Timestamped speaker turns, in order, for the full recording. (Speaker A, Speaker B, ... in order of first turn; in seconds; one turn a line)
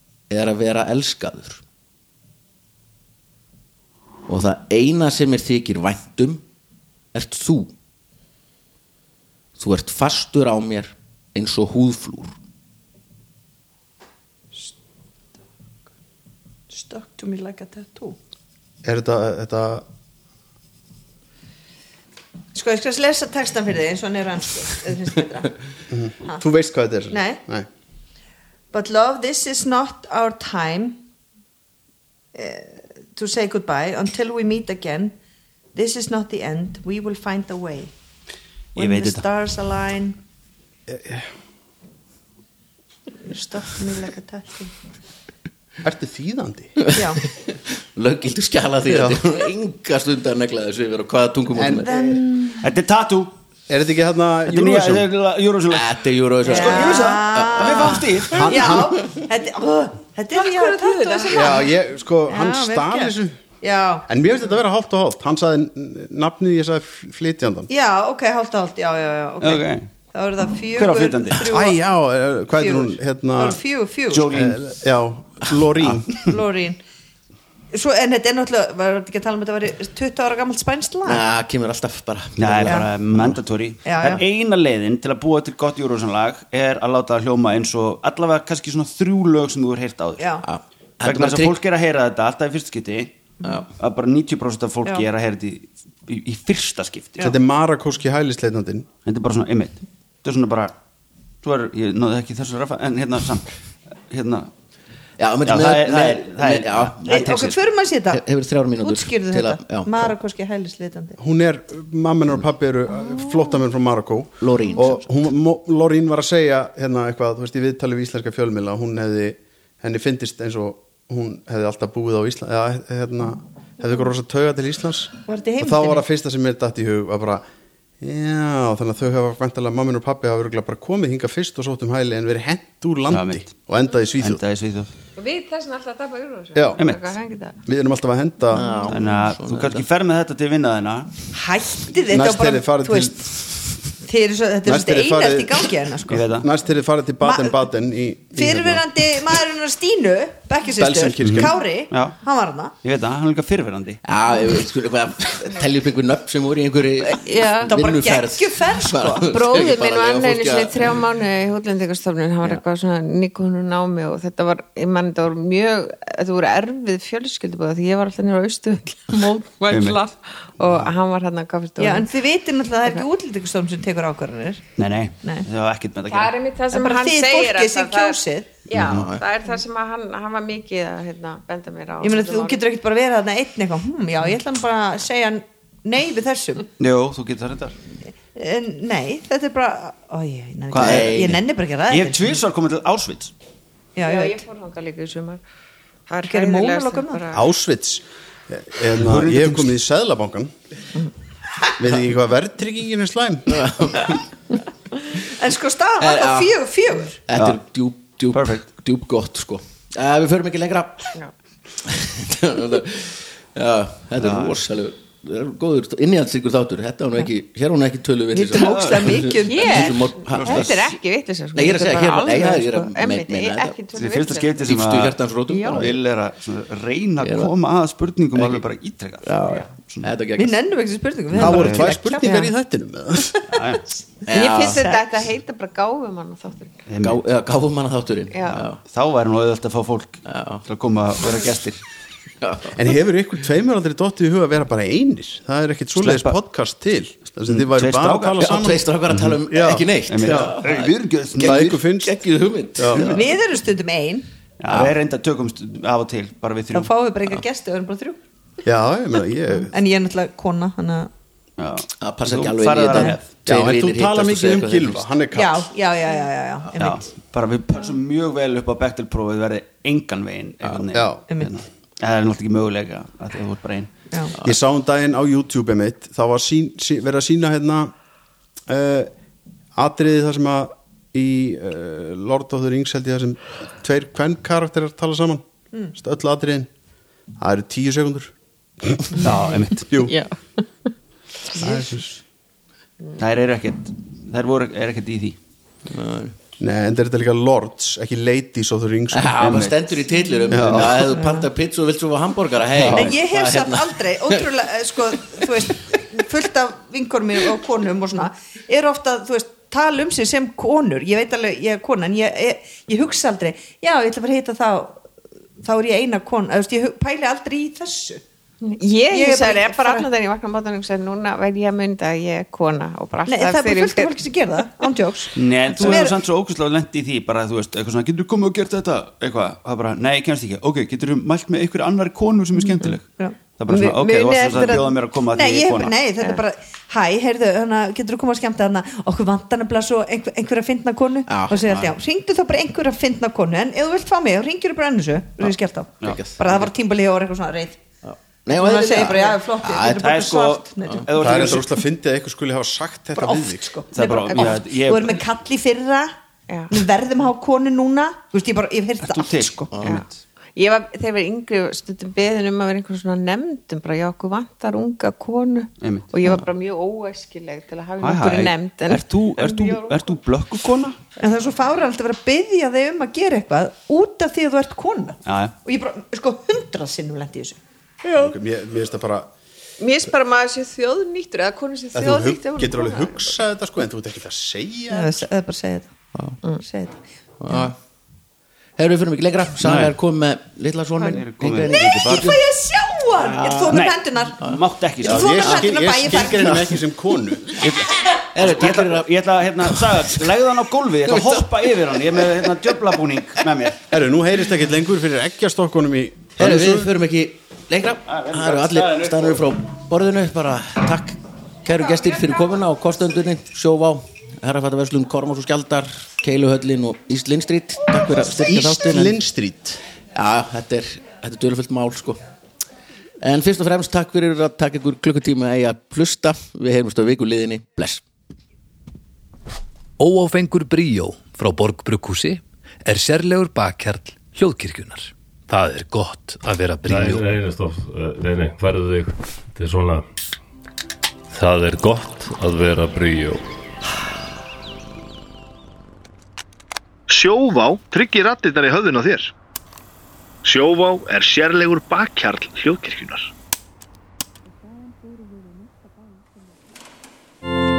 Speaker A: 0.3-1.6
Speaker A: 4.3-6.4
Speaker A: 7.1-7.7
Speaker A: 9.6-12.3
Speaker B: 16.7-18.2
Speaker C: 18.8-19.9
Speaker B: 22.5-25.5
Speaker C: 25.9-27.7
Speaker B: 27.1-27.4
Speaker B: 28.7-31.0
Speaker B: 32.3-35.1
Speaker B: 35.7-37.9
Speaker B: 38.7-40.2
Speaker D: 38.8-39.2
Speaker C: 40.9-41.3
Speaker B: 43.2-44.7
Speaker C: 45.8-46.7
Speaker A: 46.8-51.9
Speaker B: 46.9-47.2
Speaker C: 48.9-49.2
Speaker C: 51.5-52.2
Speaker B: 51.9-52.6
Speaker D: 52.6-53.3
Speaker C: 53.7-55.1
Speaker D: 54.5-58.8
Speaker A: 55.7-58.3
Speaker B: 56.4-61.7
Speaker C: 58.3-59.0
Speaker E: 60.3-61.6
Speaker C: 61.3-63.4
Speaker B: 62.3-64.1
Speaker C: 64.1-67.7
Speaker B: 67.7-71.8
Speaker D: 69.4-69.8
Speaker D: 70.7-71.5
Speaker C: 71.4-73.6
Speaker B: 72.6-74.3
Speaker D: 74.1-74.6
Speaker C: 74.3-76.1
Speaker D: 75.8-76.2
Speaker B: 76.2-76.8
Speaker B: 77.7-81.2
Speaker A: 81.0-83.4
Speaker D: 82.4-90.3
Speaker B: 83.8-84.2
Speaker B: 90.2-90.5
Speaker A: 90.4-91.6
Speaker D: 91.0-93.1
Speaker D: 93.8-97.3
Speaker C: 97.2-98.9
Speaker D: 99.1-100.7
Speaker D: 101.4-103.5
Speaker D: 104.1-104.5
Speaker A: 105.2-107.6
Speaker D: 105.5-107.5
Speaker B: 107.0-108.2
Speaker A: 108.1-110.1
Speaker B: 108.8-111.2
Speaker C: 111.2-127.4
Speaker B: 113.1-113.4
Speaker A: 114.4-115.0
Speaker B: 125.3-126.0
Speaker C: 128.0-134.4
Speaker D: 133.1-133.5
Speaker D: 134.2-134.9
Speaker E: 135.2-137.6
Speaker C: 136.6-136.8
Speaker D: 136.8-137.1
Speaker C: 137.7-138.7
Speaker B: 138.5-139.1
Speaker A: 138.6-139.8
Speaker D: 138.9-141.1
Speaker B: 141.3-143.3
Speaker C: 142.1-143.3
Speaker B: 144.0-146.2
Speaker C: 144.6-149.3
Speaker D: 146.1-146.5
Speaker B: 147.2-147.6
Speaker B: 148.3-152.7
Speaker C: 150.7-151.5
Speaker D: 151.2-152.2
Speaker D: 152.8-154.0
Speaker A: 154.0-161.0
Speaker E: 157.1-157.8
Speaker B: 157.7-159.3
Speaker E: 159.3-172.1
Speaker D: 169.7-170.0
Speaker B: 171.8-174.6
Speaker D: 174.8-176.3
Speaker E: 176.1-182.6
Speaker B: 176.7-178.5
Speaker D: 178.7-179.1
Speaker A: 178.8-179.2
Speaker B: 182.0-186.7
Speaker D: 186.8-187.7
Speaker B: 188.3-192.4
Speaker D: 190.7-191.1
Speaker A: 190.8-191.4
Speaker D: 191.9-193.3
Speaker B: 193.9-194.4
Speaker E: 194.1-195.4
Speaker E: 196.1-197.4
Speaker B: 196.3-197.2
Speaker C: 197.3-200.5
Speaker D: 198.9-199.7
Speaker C: 201.8-204.0
Speaker A: 203.5-204.2
Speaker B: 205.2-207.2
Speaker A: 206.0-206.5
Speaker A: 207.3-211.1
Speaker D: 208.3-208.6
Speaker A: 211.8-220.8
Speaker D: 214.2-214.6
Speaker B: 218.3-220.1
Speaker D: 218.5-219.2
Speaker E: 219.5-224.7
Speaker D: 220.3-220.8
Speaker A: 221.6-223.8
Speaker D: 223.9-230.1
Speaker A: 224.6-226.0
Speaker E: 225.5-225.9
Speaker A: 227.2-227.5
Speaker A: 228.3-228.6
Speaker A: 229.2-230.7
Speaker B: 230.4-232.5
Speaker D: 231.3-231.9
Speaker C: 231.3-233.4
Speaker B: 233.3-233.6
Speaker D: 233.5-233.8
Speaker A: 234.3-234.9
Speaker E: 234.3-236.8
Speaker D: 236.9-237.2
Speaker A: 237.0-238.8
Speaker E: 238.3-238.6
Speaker D: 238.5-241.8
Speaker A: 240.3-240.6
Speaker A: 242.4-242.8
Speaker C: 242.7-248.9
Speaker D: 246.0-246.3
Speaker D: 247.5-249.3
Speaker A: 248.4-253.2
Speaker C: 249.5-250.6
Speaker D: 250.1-251.8
Speaker C: 251.4-252.2
Speaker C: 252.8-253.1
Speaker D: 252.9-253.2
Speaker B: 253.1-254.3
Speaker D: 254.6-257.4
Speaker A: 254.7-254.9
Speaker B: 256.7-258.2
Speaker C: 258.6-259.7
Speaker B: 259.7-261.1
Speaker D: 261.6-263.3
Speaker A: 262.0-265.0
Speaker B: 262.9-263.2
Speaker C: 263.4-265.7
Speaker B: 265.3-267.1
Speaker D: 266.8-273.9
Speaker C: 270.9-271.2
Speaker C: 274.4-277.9
Speaker C: 278.7-279.1
Speaker C: 279.7-286.7
Speaker C: 287.4-289.1
Speaker D: 289.1-289.9
Speaker C: 289.9-290.1
Speaker C: 291.5-292.2
Speaker D: 293.2-295.4
Speaker A: 295.9-296.4
Speaker C: 296.6-299.5
Speaker A: 299.1-304.4
Speaker D: 299.4-299.9
Speaker C: 300.5-301.0
Speaker D: 300.6-300.9
Speaker B: 301.1-301.5
Speaker C: 302.8-303.1
Speaker B: 302.9-315.1
Speaker B: 315.6-318.2
Speaker E: 318.6-324.9
Speaker B: 319.1-320.1
Speaker B: 323.3-326.2
Speaker D: 325.4-335.9
Speaker B: 332.6-347.8
Speaker E: 334.0-334.8
Speaker A: 341.3-341.9
Speaker D: 346.0-346.6
Speaker A: 346.0-346.7
Speaker A: 348.0-350.1
Speaker B: 348.5-351.4
Speaker D: 350.0-351.9
Speaker C: 351.2-353.7
Speaker B: 353.1-356.1
Speaker D: 353.9-355.2
Speaker E: 354.0-354.6
Speaker B: 356.7-359.6
Speaker D: 359.0-360.1
Speaker A: 359.7-360.0
Speaker E: 360.6-370.1
Speaker D: 365.8-366.1
Speaker D: 368.0-371.0
Speaker B: 371.2-378.3
Speaker D: 375.3-375.5
Speaker C: 378.1-379.3
Speaker E: 379.8-383.4
Speaker C: 381.9-385.3
Speaker B: 384.9-385.9
Speaker B: 386.5-387.0
Speaker A: 387.4-387.8
Speaker A: 388.8-392.4
Speaker D: 389.6-389.9
Speaker D: 391.0-392.4
Speaker B: 391.8-394.4
Speaker A: 393.2-393.8
Speaker D: 393.7-395.6
Speaker B: 395.0-396.7
Speaker C: 395.0-397.8
Speaker A: 396.3-396.8
Speaker D: 397.6-403.8
Speaker A: 398.3-399.1
Speaker A: 399.7-400.2
Speaker A: 401.1-401.5
Speaker C: 403.9-406.9
Speaker A: 406.4-419.2
Speaker D: 408.1-409.4
Speaker C: 418.2-419.8
Speaker A: 420.1-422.2
Speaker A: 423.2-428.0
Speaker F: 430.0-437.2
Speaker G: 436.9-440.1
Speaker G: 441.3-443.4
Speaker H: 447.1-449.3
Speaker H: 450.4-453.3